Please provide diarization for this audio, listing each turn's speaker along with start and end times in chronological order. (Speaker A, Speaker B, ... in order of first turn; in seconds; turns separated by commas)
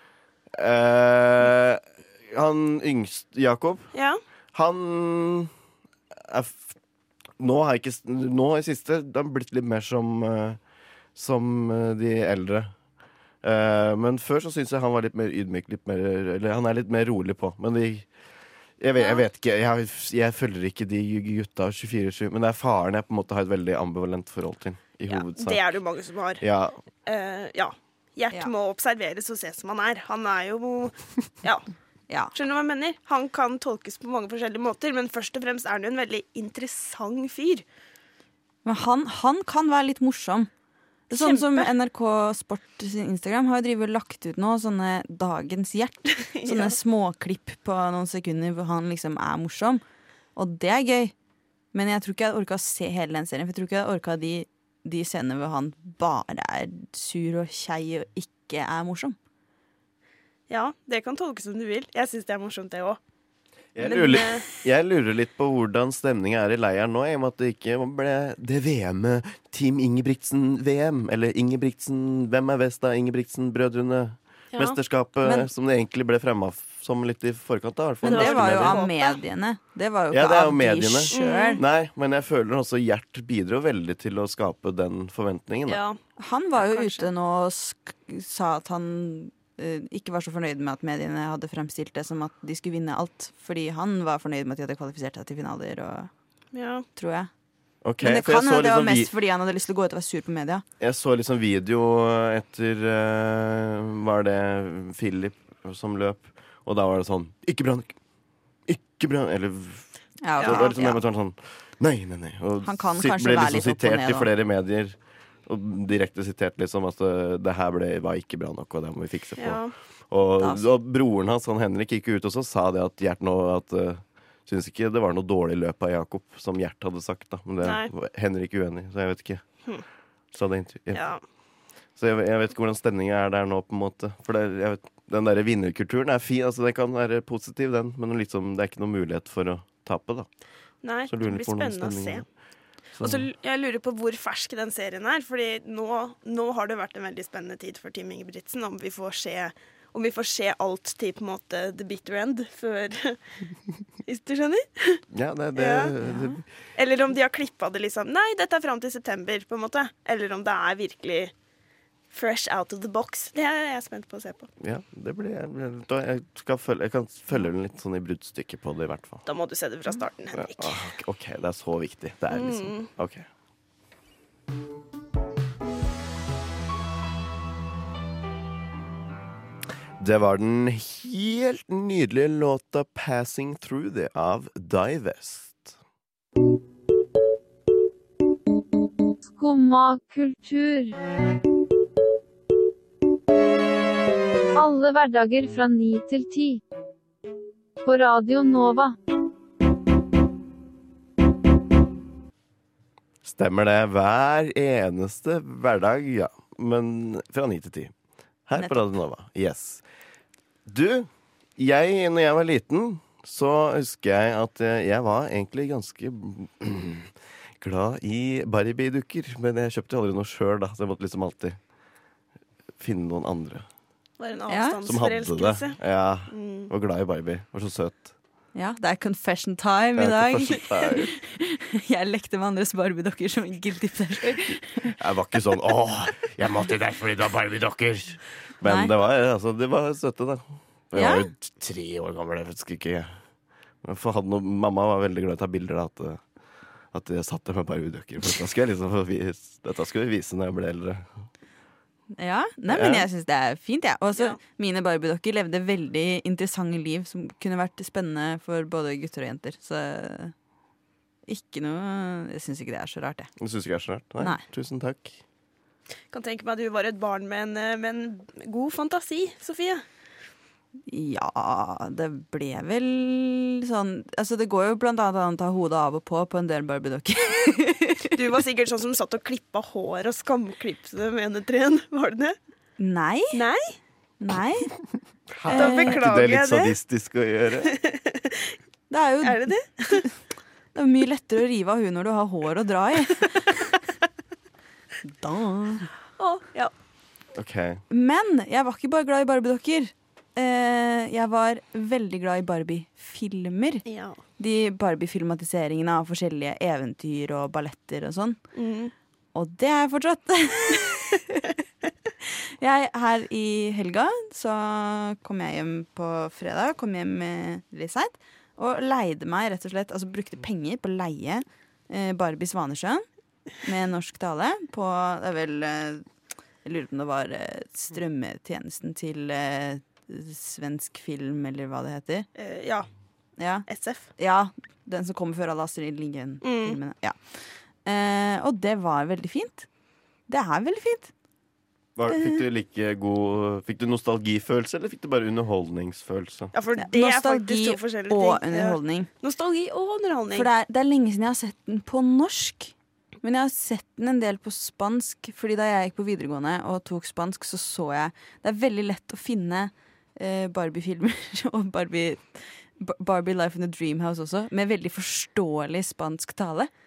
Speaker A: 0.5-3.9, Speaker B: 3.9-4.2, Speaker A: 4.5-5.5, Speaker A: 6.2-6.7, Speaker A: 7.4-10.6, Speaker A: 11.1-12.7, Speaker A: 13.4-18.1, Speaker A: 18.8-25.7, Speaker B: 25.1-26.4, Speaker A: 26.4-26.8, Speaker B: 27.0-31.6, Speaker B: 32.3-37.6, Speaker C: 38.6-40.5, Speaker C: 41.1-49.8, Speaker B: 41.1-41.7, Speaker B: 46.3-46.8, Speaker C: 50.4-51.1, Speaker C: 51.7-59.1, Speaker B: 60.5-63.0, Speaker A: 63.8-78.9, Speaker B: 63.8-64.4, Speaker C: 63.8-64.2, Speaker C: 75.2-75.5, Speaker C: 78.0-81.6, Speaker B: 78.0-79.2, Speaker A: 80.1-85.8, Speaker B: 81.1-81.6, Speaker B: 85.7-86.0, Speaker C: 86.2-96.1, Speaker B: 86.6-87.1, Speaker B: 96.5-96.8, Speaker C: 97.0-97.3, Speaker A: 97.8-99.1, Speaker C: 98.0-100.6, Speaker A: 100.8-108.0, Speaker A: 108.7-129.6, Speaker C: 110.2-111.0, Speaker B: 110.4-110.8, Speaker C: 112.6-114.3, Speaker B: 119.4-119.7, Speaker C: 120.4-120.7, Speaker B: 127.6-127.9, Speaker A: 130.3-131.1, Speaker B: 130.9-131.2, Speaker A: 131.9-140.3, Speaker B: 140.8-142.2, Speaker A: 141.0-142.2, Speaker B: 142.9-153.2, Speaker A: 143.0-143.2, Speaker B: 154.1-155.0, Speaker A: 155.1-156.4, Speaker B: 155.5-155.9, Speaker C: 156.1-156.4, Speaker B: 156.7-161.3, Speaker B: 162.1-164.5, Speaker A: 164.6-169.2, Speaker B: 169.2-170.8, Speaker A: 170.3-173.2, Speaker B: 172.3-172.9, Speaker A: 180.0-185.8, Speaker D: 189.3-190.9, Speaker D: 194.6-196.6, Speaker D: 197.8-198.9, Speaker A: 203.2-207.9, Speaker A: 208.4-209.8, Speaker A: 210.7-221.6, Speaker A: 222.8-223.7, Speaker B: 224.2-226.7, Speaker C: 224.5-224.8, Speaker A: 224.8-228.1, Speaker C: 228.6-234.9, Speaker A: 230.0-231.1, Speaker A: 235.0-243.2, Speaker C: 238.6-238.9, Speaker C: 240.9-241.3, Speaker A: 243.8-246.2, Speaker A: 246.9-251.1, Speaker C: 252.2-260.3, Speaker A: 252.7-253.1, Speaker C: 261.3-263.3, Speaker A: 263.4-265.2, Speaker B: 266.1-269.8, Speaker C: 270.9-278.1, Speaker B: 278.1-282.4, Speaker C: 282.8-283.4, Speaker B: 283.3-283.8, Speaker C: 284.2-284.7, Speaker A: 285.4-287.7, Speaker C: 285.5-286.0, Speaker B: 285.5-286.8, Speaker B: 287.7-288.4, Speaker C: 288.9-290.1, Speaker B: 289.2-290.1, Speaker C: 290.7-293.5, Speaker C: 295.0-295.9, Speaker B: 296.2-296.7, Speaker A: 297.3-297.8, Speaker C: 297.9-303.8, Speaker B: 303.9-304.2, Speaker C: 304.4-308.4, Speaker B: 308.5-308.9, Speaker C: 309.3-311.4, Speaker C: 312.6-323.1, Speaker C: 323.6-326.0, Speaker C: 326.6-332.3, Speaker B: 332.4-332.9, Speaker C: 333.4-339.7, Speaker B: 333.7-334.1, Speaker B: 336.4-336.8, Speaker C: 340.3-341.1, Speaker A: 341.9-346.5, Speaker C: 342.1-342.4, Speaker B: 346.5-350.5, Speaker C: 346.8-349.1, Speaker C: 350.3-366.7